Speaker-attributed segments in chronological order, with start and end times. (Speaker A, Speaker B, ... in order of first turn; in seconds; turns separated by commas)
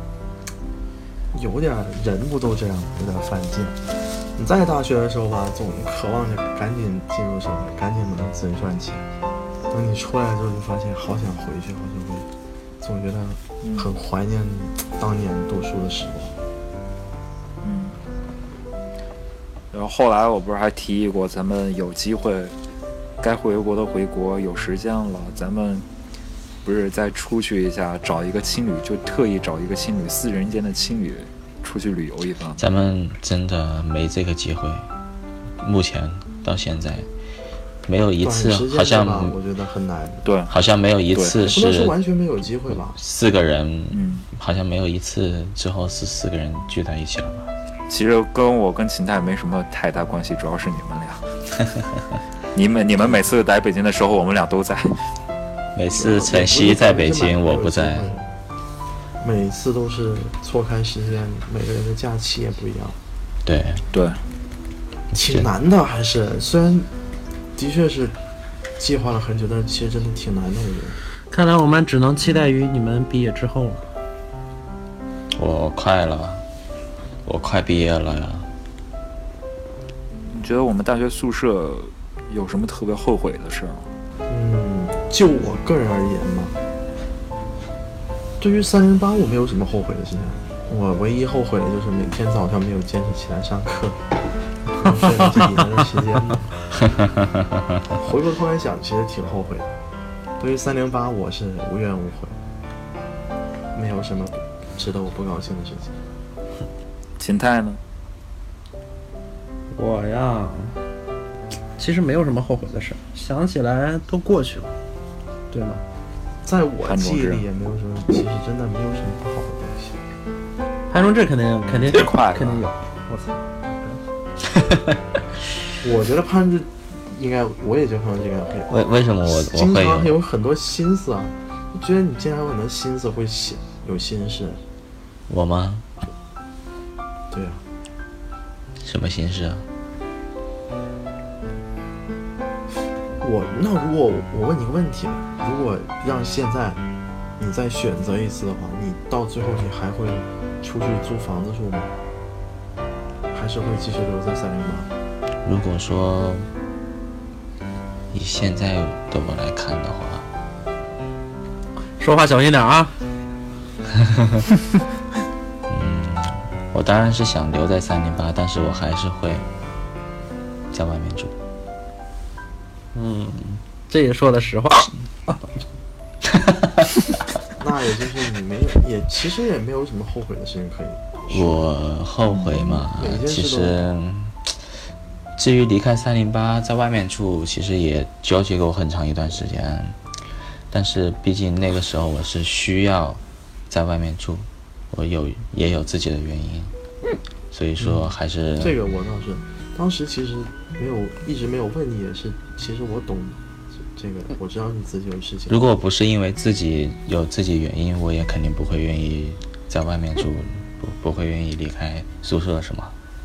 Speaker A: 1.3-3.8, Speaker A: 4.3-9.1, Speaker A: 9.7-12.3, Speaker A: 12.8-16.4, Speaker B: 13.6-13.9, Speaker B: 17.6-17.9, Speaker B: 19.7-22.5, Speaker B: 23.2-25.9, Speaker B: 26.6-32.6, Speaker C: 32.6-34.9, Speaker C: 35.6-37.1, Speaker C: 37.9-39.4, Speaker A: 38.2-40.2, Speaker B: 40.2-40.5, Speaker C: 40.5-42.0, Speaker B: 41.1-41.4, Speaker A: 41.4-43.0, Speaker C: 42.7-47.5, Speaker B: 43.9-44.2, Speaker B: 47.9-51.2, Speaker B: 52.5-55.0, Speaker C: 55.7-58.1, Speaker A: 56.0-58.3, Speaker A: 59.2-63.0, Speaker C: 63.4-63.8, Speaker B: 63.9-64.2, Speaker C: 65.1-65.5, Speaker A: 65.1-66.9, Speaker A: 67.5-68.1, Speaker A: 68.8-71.0, Speaker D: 71.3-73.9, Speaker C: 75.3-76.4, Speaker C: 77.2-78.5, Speaker B: 80.3-83.9, Speaker A: 84.3-86.5, Speaker A: 88.4-94.0, Speaker A: 94.7-96.5, Speaker A: 98.0-99.7, Speaker A: 100.4-102.3, Speaker A: 103.7-105.9, Speaker B: 107.2-107.8, Speaker D: 109.7-110.8, Speaker D: 111.8-114.7, Speaker D: 115.5-115.8, Speaker A: 116.4-120.0, Speaker B: 116.8-117.4, Speaker D: 120.9-124.0, Speaker B: 121.7-122.7, Speaker A: 125.8-134.6, Speaker C: 128.7-130.2, Speaker C: 135.3-135.8, Speaker A: 137.3-137.6, Speaker C: 138.8-139.7, Speaker A: 143.2-146.8, Speaker A: 147.4-151.9, Speaker A: 153.3-154.9, Speaker C: 155.4-156.4, Speaker C: 158.1-160.2, Speaker D: 162.0-162.9, Speaker C: 164.0-164.4, Speaker C: 165.7-169.4, Speaker C: 170.7-171.3, Speaker D: 172.9-174.9, Speaker C: 176.4-176.8, Speaker A: 177.6-181.6, Speaker C: 181.3-184.5, Speaker B: 182.3-182.6, Speaker A: 182.9-183.8, Speaker C: 185.4-190.0, Speaker C: 190.7-196.7, Speaker C: 197.5-198.8, Speaker A: 197.8-203.4, Speaker A: 203.9-205.6, Speaker C: 205.5-212.9